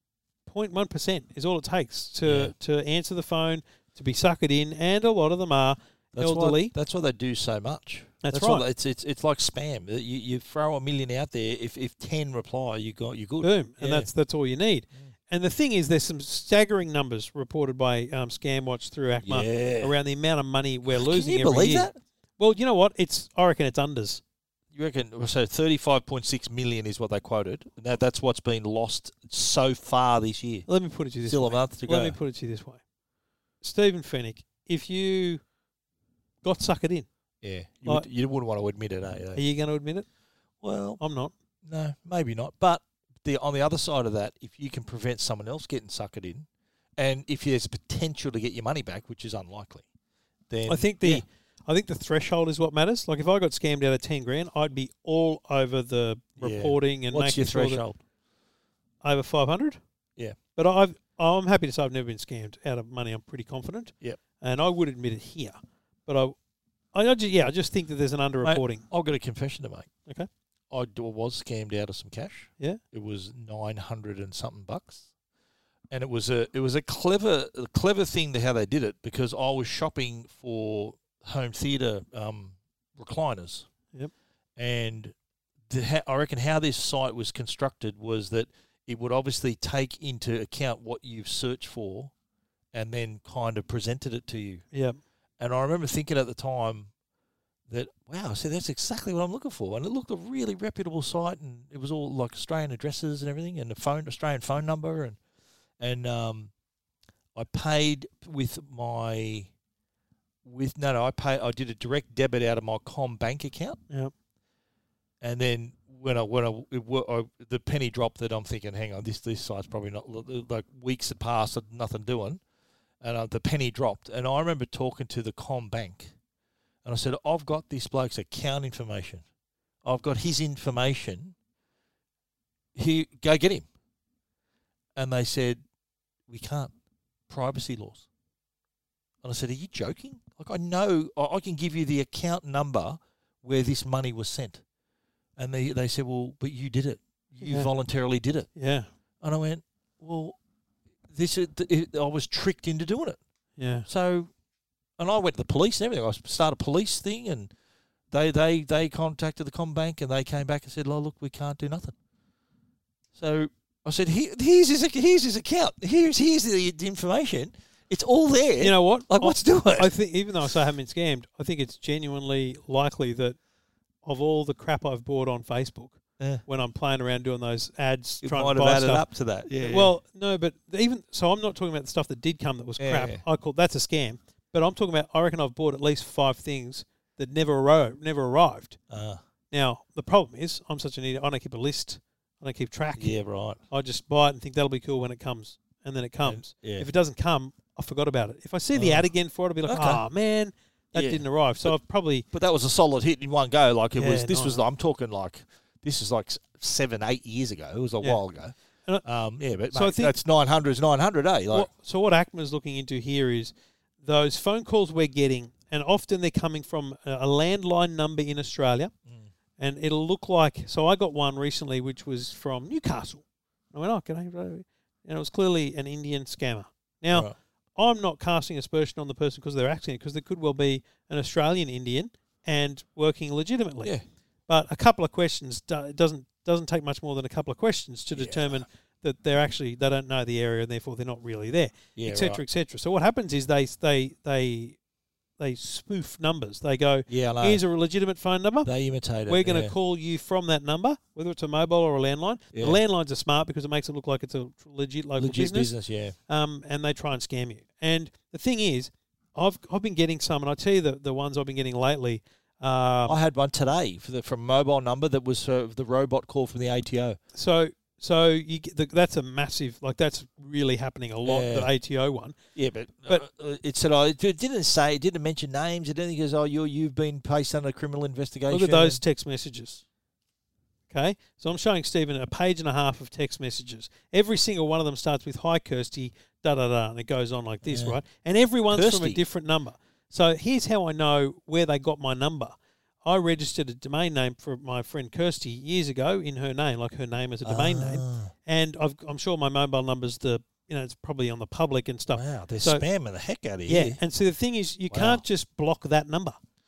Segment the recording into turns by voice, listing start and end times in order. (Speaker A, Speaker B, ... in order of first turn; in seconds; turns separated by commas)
Speaker A: 0.5-6.7, Speaker B: 2.2-2.5, Speaker B: 6.1-14.1, Speaker A: 8.2-8.7, Speaker A: 13.4-24.2, Speaker B: 19.2-19.9, Speaker B: 20.9-22.0, Speaker B: 24.7-30.7, Speaker A: 30.7-32.8, Speaker B: 31.3-32.2, Speaker A: 33.6-35.4, Speaker A: 36.4-37.1, Speaker B: 37.4-39.4, Speaker A: 39.4-40.1, Speaker B: 40.6-41.0, Speaker A: 41.0-41.3, Speaker B: 41.6-49.9, Speaker B: 50.5-51.2, Speaker A: 50.7-57.8, Speaker B: 56.4-58.0, Speaker A: 59.0-59.8, Speaker A: 60.6-66.3, Speaker A: 66.9-68.9, Speaker B: 68.4-69.9, Speaker B: 70.7-75.1, Speaker B: 75.9-83.7, Speaker B: 84.6-85.2, Speaker B: 85.7-92.1, Speaker B: 92.7-94.7, Speaker A: 94.7-95.0, Speaker B: 95.4-96.9, Speaker B: 97.7-105.2, Speaker B: 105.8-106.5, Speaker B: 107.3-109.5, Speaker B: 110.5-113.8, Speaker B: 115.2-122.4, Speaker B: 123.0-126.1, Speaker B: 126.8-129.2, Speaker B: 129.8-131.3, Speaker B: 132.8-133.7, Speaker B: 135.0-135.6, Speaker B: 136.3-136.7, Speaker B: 137.3-138.1, Speaker B: 139.2-144.6, Speaker B: 145.4-148.5, Speaker A: 147.4-147.7, Speaker A: 148.6-148.9, Speaker B: 149.2-150.4, Speaker B: 151.1-153.2, Speaker A: 153.6-153.9, Speaker B: 153.8-154.3, Speaker B: 155.0-157.5, Speaker B: 158.1-161.9, Speaker B: 163.2-169.9, Speaker A: 168.6-173.4, Speaker A: 174.0-179.1, Speaker B: 178.2-179.9, Speaker A: 179.6-188.8, Speaker B: 182.8-183.2, Speaker B: 188.9-189.2, Speaker A: 189.5-193.2, Speaker B: 193.0-193.6, Speaker A: 193.7-202.2, Speaker B: 196.2-196.9, Speaker B: 198.7-199.1, Speaker B: 199.7-200.0, Speaker B: 200.9-201.8, Speaker B: 202.3-211.7, Speaker A: 204.0-204.6, Speaker A: 209.7-210.1, Speaker A: 211.5-218.9, Speaker A: 219.6-233.9, Speaker A: 234.5-244.8, Speaker B: 238.1-238.6, Speaker B: 242.0-242.4, Speaker A: 245.4-248.7, Speaker B: 247.1-247.6, Speaker B: 248.6-249.7, Speaker A: 249.3-255.7, Speaker B: 252.5-252.8, Speaker B: 255.2-256.2, Speaker A: 256.3-263.2, Speaker B: 263.1-267.2, Speaker A: 267.3-272.4, Speaker B: 271.2-271.7, Speaker B: 272.6-279.0, Speaker A: 278.5-279.8, Speaker A: 280.9-302.9, Speaker B: 287.6-288.0, Speaker B: 288.7-289.2, Speaker B: 297.4-298.3, Speaker B: 302.1-304.0, Speaker A: 303.7-306.4, Speaker B: 304.9-305.2